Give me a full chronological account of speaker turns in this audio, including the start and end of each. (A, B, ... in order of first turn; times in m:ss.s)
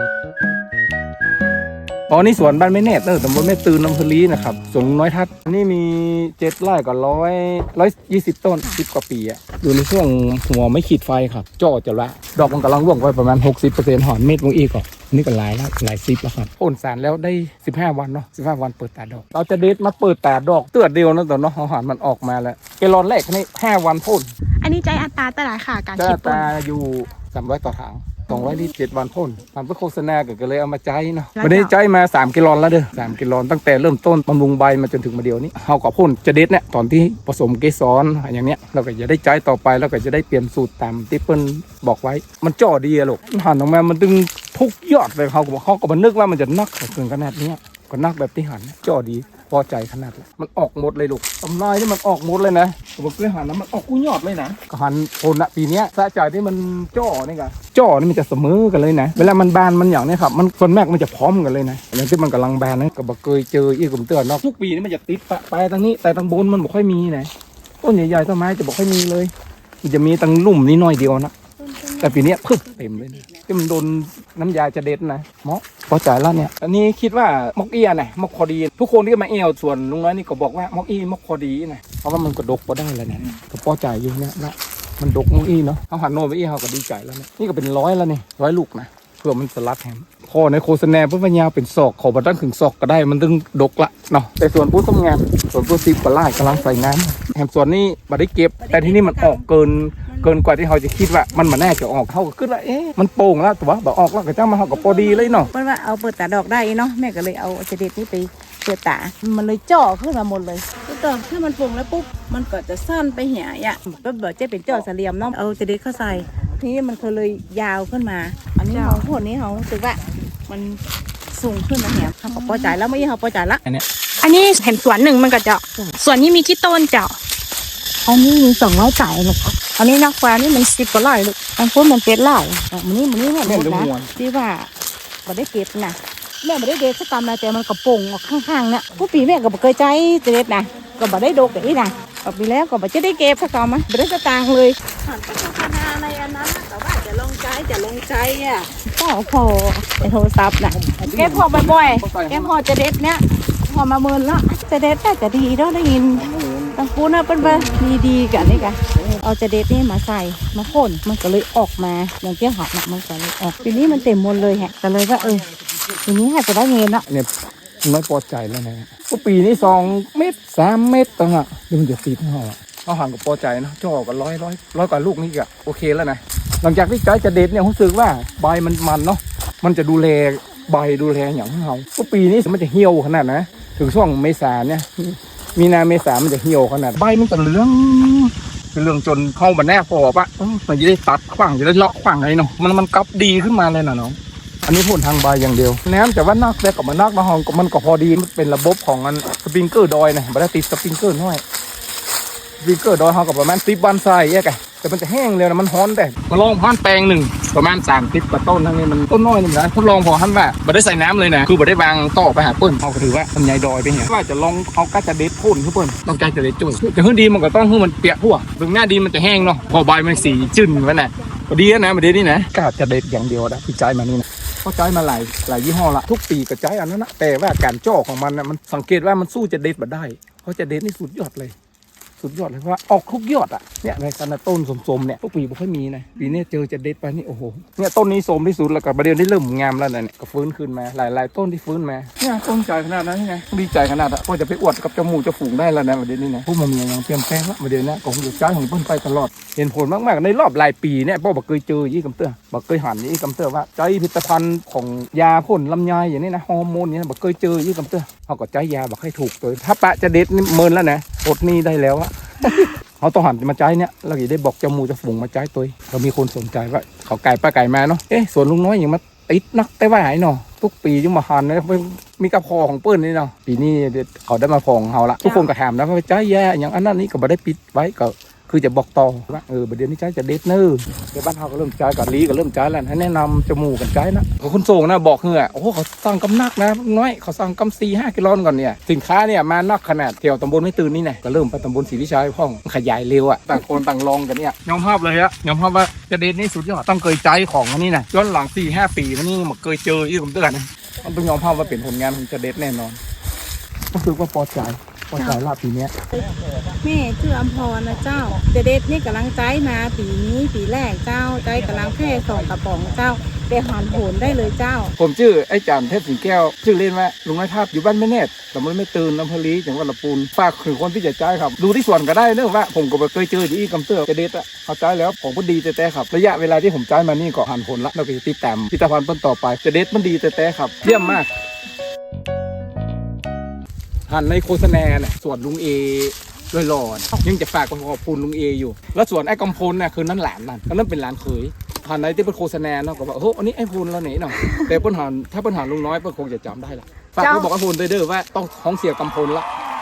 0:02.1-0:24.3 A
0:24.6-0:26.5 B
0:26.0-1:07.3 A
0:31.4-0:31.7 B
1:07.8-1:09.3 A
1:09.8-1:11.3 A
1:11.6-1:13.4 C
1:12.0-1:45.5 A
1:38.6-1:39.4 C
1:40.1-1:40.3 C
1:45.1-2:00.8 C
1:58.7-1:59.1 B
2:01.3-2:03.6 C
2:02.3-2:02.8 B
2:04.2-2:07.2 B
2:08.1-2:14.7 C
2:13.4-2:14.1 A
2:15.3-2:36.2 C
2:30.6-2:32.5 A
2:36.1-2:36.8 A
2:36.8-2:47.0 C
2:37.4-2:37.8 A
2:47.8-3:21.4 A
3:22.6-3:51.6 A
3:52.2-5:03.0 A
5:03.9-5:05.9 A
5:06.8-5:14.9 C
5:15.0-5:31.3 A
5:34.1-5:49.5 A
5:47.2-5:47.5 B